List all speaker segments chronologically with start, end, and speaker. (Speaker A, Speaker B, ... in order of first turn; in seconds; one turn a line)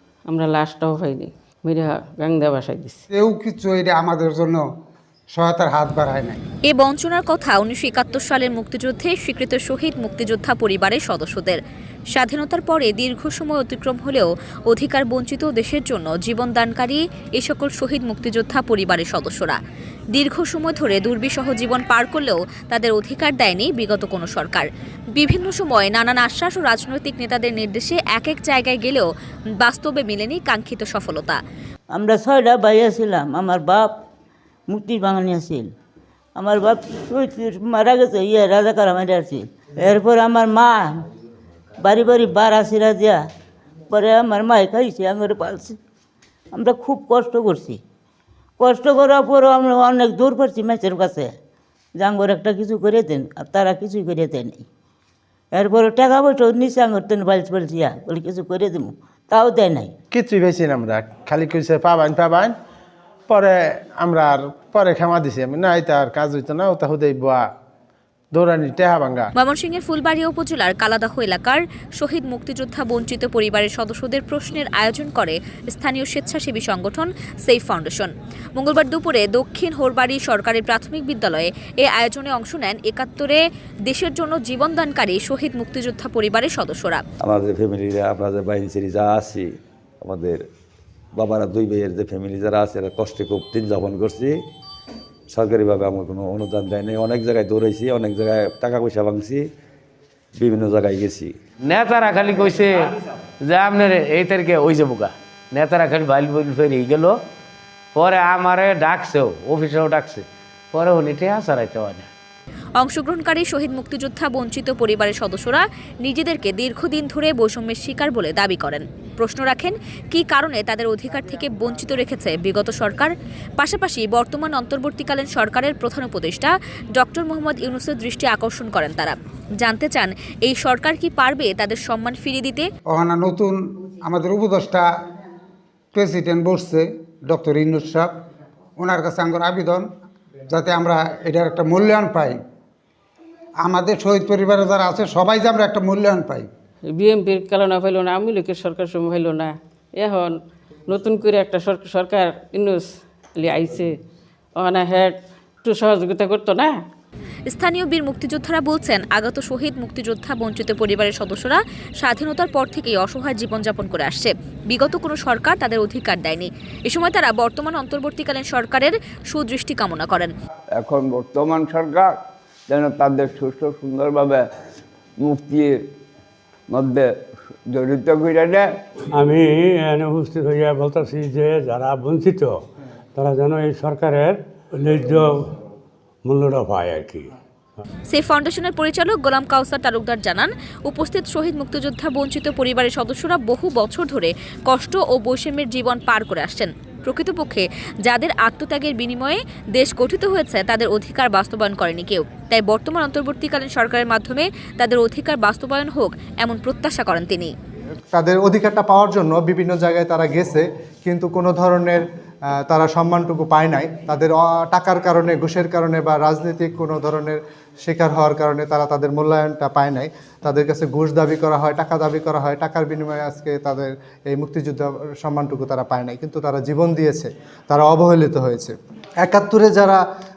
Speaker A: 0.3-3.0
Speaker B: 3.1-4.6
Speaker B: 5.3-6.4
Speaker C: 6.7-11.6
Speaker C: 12.1-19.6
Speaker C: 20.1-29.1
Speaker C: 29.6-31.4
Speaker D: 31.9-33.9
Speaker D: 34.7-35.7
Speaker D: 36.4-41.0
Speaker D: 41.8-43.2
Speaker D: 43.9-45.8
Speaker D: 46.5-47.8
Speaker D: 48.6-51.3
Speaker D: 52.0-54.6
Speaker D: 55.5-59.9
Speaker E: 60.1-62.5
Speaker E: 63.3-67.4
Speaker E: 68.3-69.3
Speaker C: 69.4-87.0
Speaker F: 87.2-89.5
Speaker F: 90.0-90.4
Speaker F: 91.2-94.3
Speaker F: 95.3-99.5
Speaker F: 100.3-101.3
Speaker G: 101.6-107.2
Speaker G: 107.9-112.1
Speaker C: 112.8-132.7
Speaker B: 132.9-134.8
Speaker B: 135.9-138.1
Speaker B: 138.8-139.8
Speaker B: 140.5-142.4
Speaker B: 143.6-146.5
Speaker A: 146.9-153.9
Speaker A: 154.6-156.8
Speaker C: 157.5-170.3
Speaker H: 170.7-174.5
Speaker H: 175.2-175.9
Speaker H: 176.7-178.8
Speaker I: 179.1-182.6
Speaker I: 183.1-185.6
Speaker I: 186.2-187.3
Speaker C: 188.1-207.5
Speaker J: 208.1-212.0
Speaker J: 212.7-228.7
Speaker J: 229.2-230.0